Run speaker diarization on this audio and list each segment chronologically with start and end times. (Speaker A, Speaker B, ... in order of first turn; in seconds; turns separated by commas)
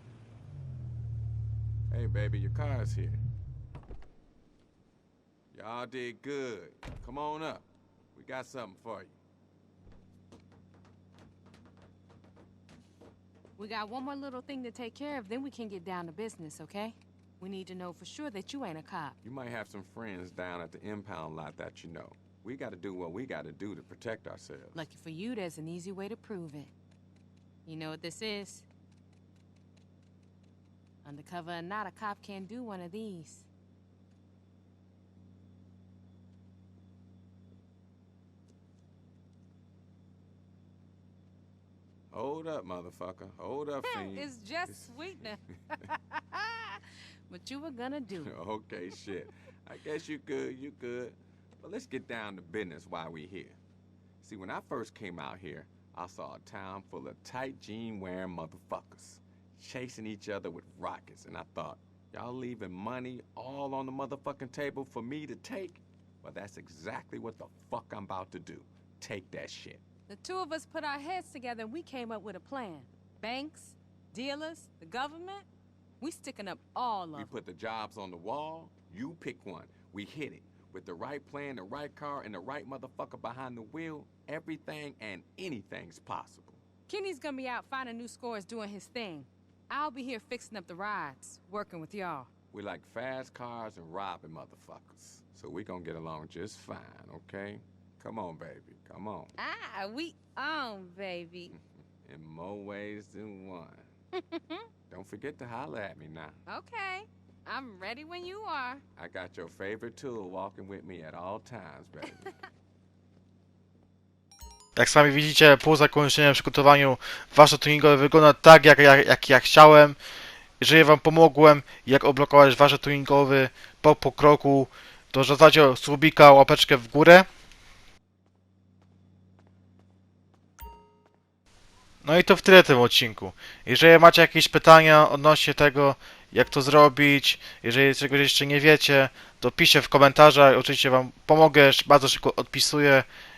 Speaker A: 1.9-3.2, Speaker A: 5.5-9.2, Speaker B: 13.6-19.2, Speaker A: 19.2-24.9, Speaker B: 24.7-26.7, Speaker B: 27.7-28.7, Speaker B: 31.0-33.5, Speaker A: 42.1-45.4, Speaker B: 43.8-48.3, Speaker A: 48.1-53.6, Speaker A: 54.2-69.8, Speaker B: 70.1-75.5, Speaker B: 76.0-77.3, Speaker A: 77.1-86.6, Speaker B: 86.9-92.3, Speaker A: 92.5-99.3, Speaker B: 99.4-101.5, Speaker A: 101.5-103.9, Speaker B: 104.2-104.7, Speaker A: 104.9-106.4, Speaker B: 106.5-108.8, Speaker A: 109.0-112.3, Speaker C: 114.8-120.0, Speaker C: 120.6-127.3, Speaker C: 132.0-143.1